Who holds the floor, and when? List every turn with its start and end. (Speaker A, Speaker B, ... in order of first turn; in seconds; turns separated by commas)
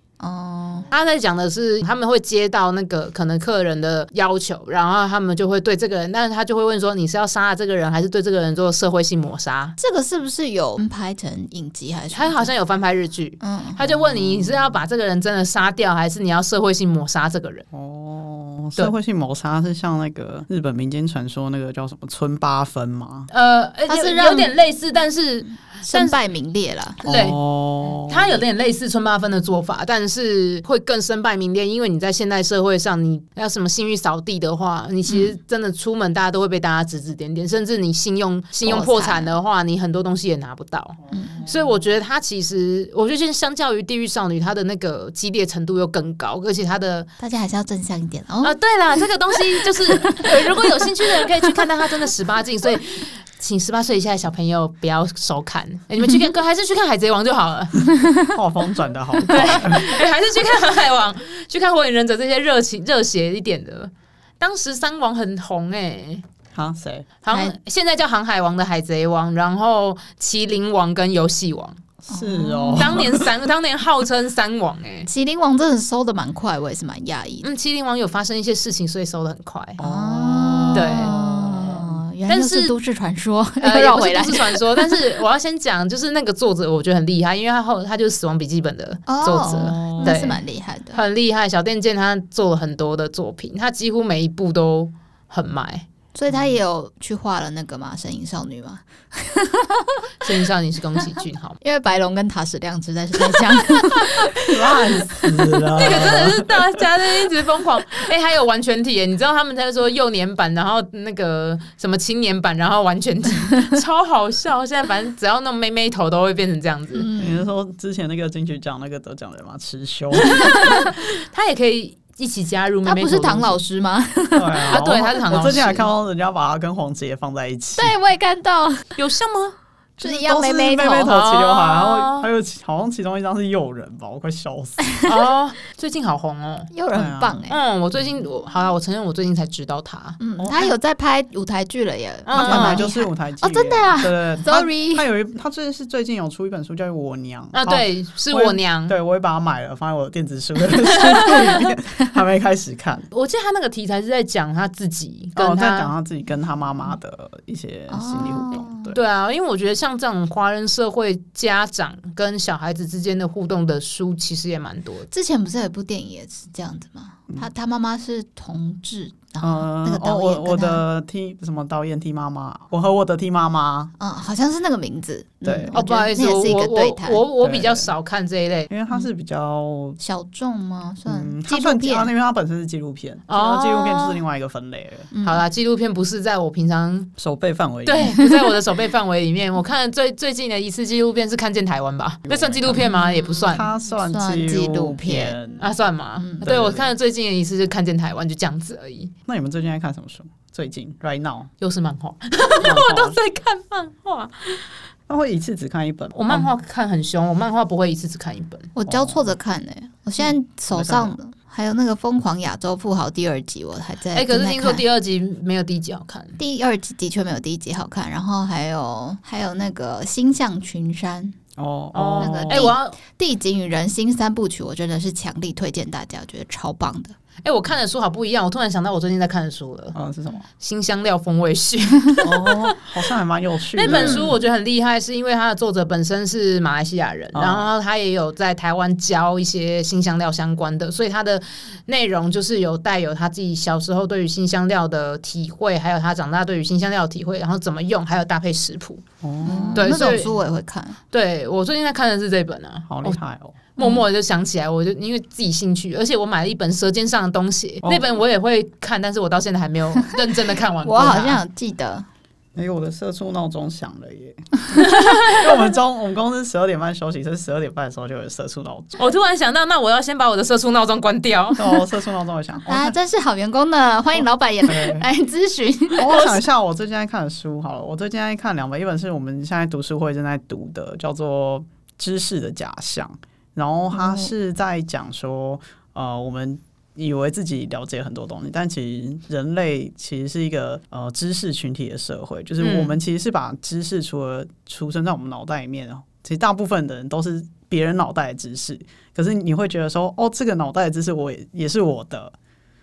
Speaker A: 0.2-0.9, Speaker B: 0.9-9.8, Speaker A: 9.8-12.5, Speaker B: 12.1-17.6, Speaker A: 13.4-13.8, Speaker C: 13.8-14.7, Speaker C: 17.7-23.3, Speaker B: 23.3-26.1, Speaker A: 23.9-24.5, Speaker A: 25.8-27.0, Speaker C: 27.0-28.4, Speaker B: 27.0-27.4, Speaker B: 28.1-47.1, Speaker A: 35.1-35.3, Speaker A: 38.6-39.4, Speaker A: 41.1-41.4, Speaker A: 47.2-48.6, Speaker B: 48.4-57.8, Speaker A: 49.9-50.5, Speaker C: 58.3-59.9, Speaker B: 59.2-66.2, Speaker C: 66.5-67.1, Speaker B: 67.2-71.8, Speaker C: 72.0-73.3, Speaker A: 72.1-73.0, Speaker B: 72.8-75.1, Speaker A: 75.0-77.5, Speaker B: 77.4-79.8, Speaker C: 79.8-82.0, Speaker A: 79.8-85.0, Speaker B: 80.7-81.1, Speaker B: 82.3-82.7, Speaker B: 83.6-95.9, Speaker A: 89.1-91.0, Speaker C: 89.5-90.3, Speaker A: 96.1-100.1, Speaker B: 100.2-101.6, Speaker A: 101.6-105.3, Speaker C: 104.5-106.8, Speaker B: 105.7-117.1, Speaker A: 116.9-117.5, Speaker C: 117.2-120.7, Speaker B: 120.2-123.6, Speaker A: 122.8-124.9, Speaker C: 124.3-127.9, Speaker B: 124.7-125.9, Speaker A: 127.8-128.9, Speaker B: 128.9-129.6, Speaker C: 130.0-134.9, Speaker A: 130.0-131.2, Speaker B: 131.1-132.3, Speaker A: 134.8-135.1, Speaker B: 135.0-136.7, Speaker A: 136.7-137.6, Speaker C: 136.9-137.4, Speaker B: 137.5-140.2, Speaker A: 140.2-145.0, Speaker C: 140.4-140.7, Speaker B: 142.2-142.9, Speaker C: 142.3-153.1, Speaker B: 147.5-148.9, Speaker B: 150.9-151.7, Speaker B: 153.1-155.9, Speaker C: 155.3-159.0, Speaker A: 157.9-158.9, Speaker B: 158.9-165.1, Speaker A: 165.1-170.8, Speaker C: 169.4-173.9, Speaker A: 174.0-177.2, Speaker C: 175.4-175.8, Speaker B: 175.7-178.7, Speaker C: 177.4-177.9, Speaker C: 178.7-180.0, Speaker A: 180.0-182.1, Speaker C: 181.1-185.1, Speaker B: 183.3-184.2, Speaker A: 185.1-185.4, Speaker B: 185.2-187.1, Speaker C: 187.2-188.2, Speaker B: 187.8-193.6, Speaker C: 192.3-192.9, Speaker A: 192.8-195.4, Speaker C: 193.5-195.7, Speaker B: 195.6-199.1, Speaker C: 196.4-196.9, Speaker C: 199.3-201.5, Speaker B: 201.6-204.7, Speaker C: 202.6-203.2, Speaker C: 205.1-206.4, Speaker B: 206.1-208.7, Speaker A: 208.7-214.8, Speaker C: 208.9-209.3, Speaker C: 210.7-211.2, Speaker B: 214.1-216.4, Speaker A: 216.4-221.3, Speaker C: 221.6-222.7, Speaker B: 221.9-223.0, Speaker A: 222.2-227.1, Speaker B: 227.4-229.9, Speaker C: 229.9-230.4, Speaker B: 230.6-232.8, Speaker C: 232.2-234.3, Speaker B: 233.8-249.0, Speaker A: 233.8-234.3, Speaker C: 237.3-237.7, Speaker C: 249.2-250.2, Speaker A: 249.4-251.0, Speaker B: 249.7-250.3, Speaker B: 251.1-253.2, Speaker C: 252.9-253.6, Speaker B: 253.8-261.4, Speaker A: 253.8-254.0, Speaker C: 257.8-258.2, Speaker A: 260.8-262.1, Speaker C: 262.6-269.0, Speaker B: 264.8-265.4, Speaker B: 269.0-271.7, Speaker C: 271.6-272.9, Speaker A: 272.6-276.4, Speaker C: 274.7-275.0, Speaker C: 276.0-302.3, Speaker A: 283.9-284.3, Speaker B: 292.6-292.9